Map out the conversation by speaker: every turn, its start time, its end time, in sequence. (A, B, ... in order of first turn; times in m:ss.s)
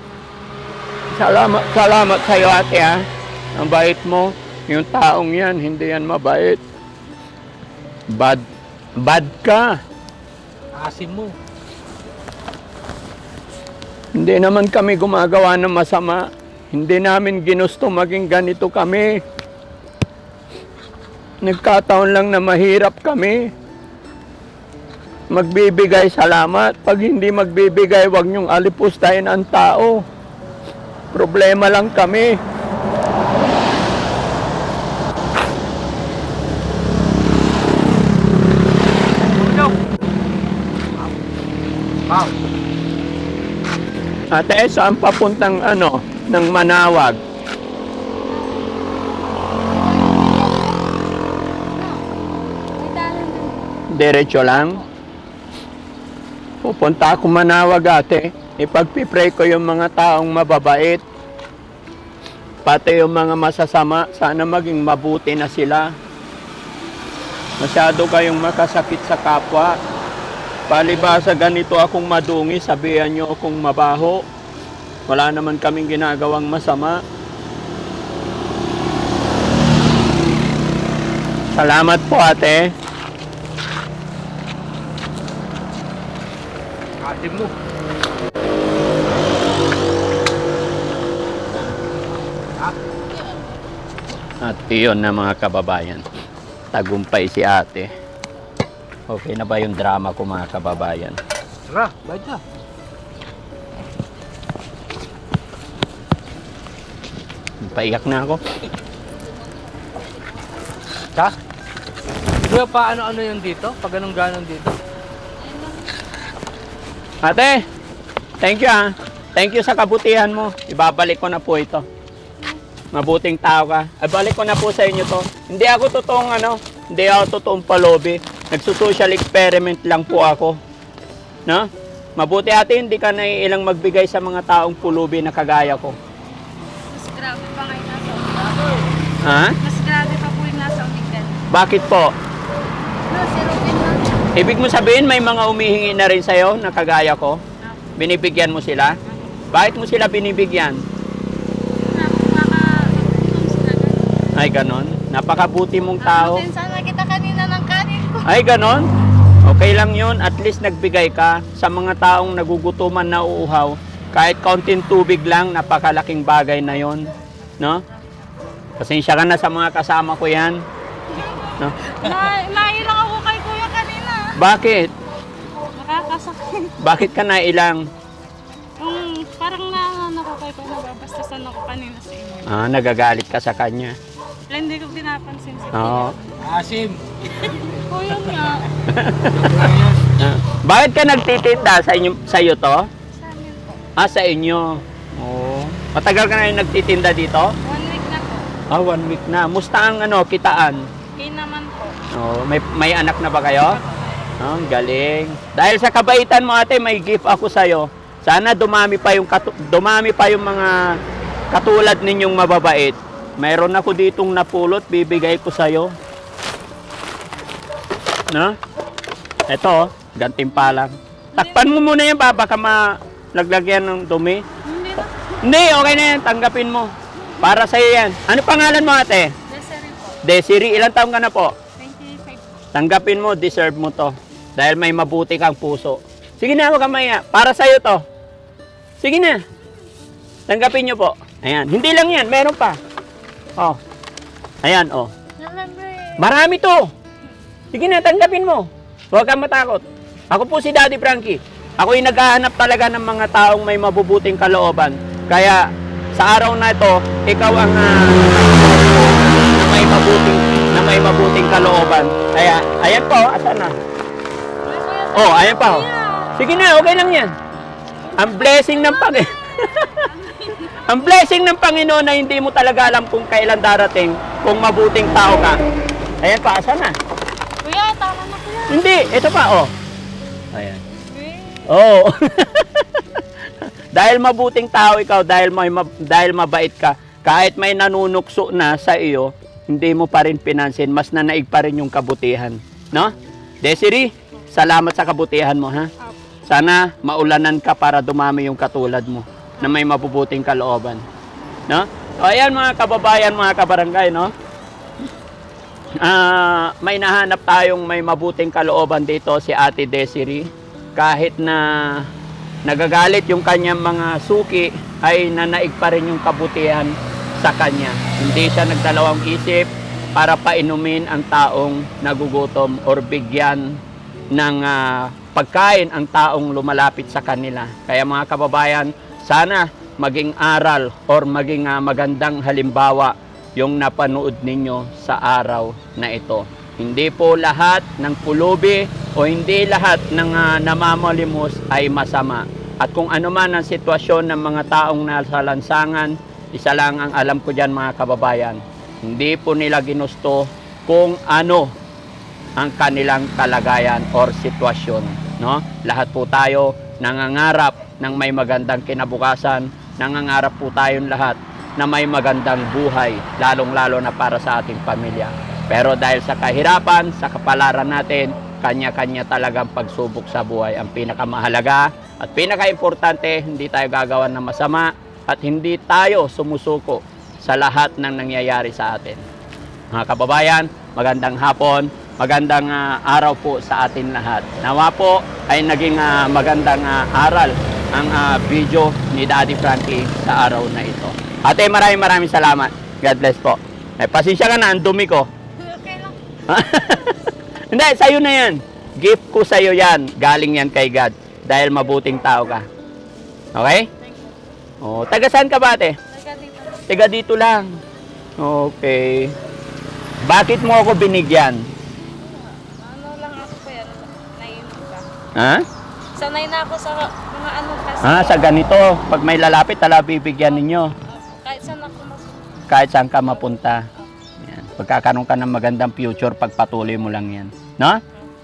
0:01.1-0:03.0 A
0:03.6-0:06.6 A
0:08.1-0:08.4 A
0:09.0-0:09.7 A
0:10.8-0:11.4 B
0:14.2-0:19.1 A
0:21.4-0:23.4 A
0:25.3-0:30.0 A
0:31.1-0:32.3 A
0:39.4-0:39.7 B
0:42.0-0:42.4 B
0:44.3-0:47.2 A
0:49.7-0:50.9 C
0:51.8-0:52.0 C
0:52.8-0:53.7 C
0:53.9-0:54.8 A
0:56.6-1:01.0 A
1:02.6-1:05.9 A
1:07.6-1:09.8 A
1:10.7-1:14.2 A
1:15.1-1:17.0 A
1:21.5-1:22.7 A
1:27.0-1:27.5 B
1:34.4-1:36.0 A
1:36.7-1:37.9 A
1:39.1-1:41.2 A
1:41.7-1:42.4 B
1:47.6-1:48.4 A
1:52.4-1:54.8 B
1:55.4-1:55.9 C
1:57.2-1:57.6 A
1:58.4-2:01.8 A
2:02.9-2:10.6 A
2:11.5-2:16.0 A
2:16.9-2:18.9 C
2:19.2-2:19.6 A
2:19.6-2:21.4 C
2:21.5-2:22.1 A
2:23.1-2:24.3 C
2:24.3-2:27.4 A
2:28.0-2:29.0 A
2:29.1-2:29.4 C
2:29.5-2:30.8 A
2:31.8-2:34.2 C
2:34.4-2:36.4 A
2:36.0-2:38.3 C
2:38.2-2:38.9 A
2:39.4-2:47.0 A
2:48.8-2:50.6 A
2:51.1-2:54.4 C
2:54.4-2:54.9 A
2:55.7-2:56.8 C
2:56.8-2:57.8 A
2:58.8-3:02.5 C
3:02.4-3:04.0 A
3:04.5-3:06.3 C
3:05.7-3:06.2 A
3:06.4-3:07.0 B
3:07.3-3:08.7 C
3:08.9-3:09.6 A
3:09.2-3:10.1 B
3:10.2-3:12.9 A
3:13.1-3:13.8 C
3:14.0-3:17.5 A
3:17.6-3:18.5 C
3:18.7-3:20.8 A
3:21.2-3:22.0 C
3:22.1-3:23.8 A
3:23.6-3:24.4 C
3:24.4-3:30.8 A
3:31.5-3:35.9 A
3:38.3-3:38.6 A
3:39.5-3:44.4 A
3:41.3-3:41.7 C
3:44.6-3:45.2 C
3:45.4-3:49.3 A
3:49.5-3:50.2 C
3:50.2-3:51.5 A
3:51.8-3:52.6 C
3:52.7-3:58.0 A
3:59.0-3:59.4 A
4:00.5-4:02.8 A
4:04.6-4:05.1 A
4:05.4-4:06.2 C
4:06.2-4:06.8 A
4:07.7-4:15.6 A
4:16.1-4:23.7 A
4:24.6-4:26.3 C
4:25.1-4:25.8 A
4:26.4-4:27.3 A
4:28.0-4:30.8 C
4:28.2-4:30.1 A
4:30.8-4:35.6 A
4:36.2-4:36.9 A
4:37.6-4:38.9 C
4:38.7-4:39.7 A
4:40.5-4:40.8 A
4:41.1-4:41.7 C
4:41.6-4:43.0 A
4:43.9-4:55.9 A
4:56.4-5:01.0 A
5:01.7-5:04.3 A
5:06.0-5:12.1 A
5:12.6-5:23.8 A
5:24.3-5:51.7 A
5:52.6-6:19.2 A
6:19.9-6:35.3 A
6:35.6-6:36.2 C
6:36.5-6:42.7 A
6:43.5-6:43.9 A
6:44.0-6:44.3 C
6:44.8-6:46.0 A
6:46.1-6:47.0 C
6:46.9-6:47.8 A
6:48.4-6:49.3 A
6:50.2-6:51.6 A
6:52.2-6:55.0 C
6:55.4-6:55.6 A
6:56.1-6:58.4 C
6:58.0-7:00.9 A
7:01.0-7:02.7 C
7:02.7-7:03.9 A
7:04.4-7:08.0 A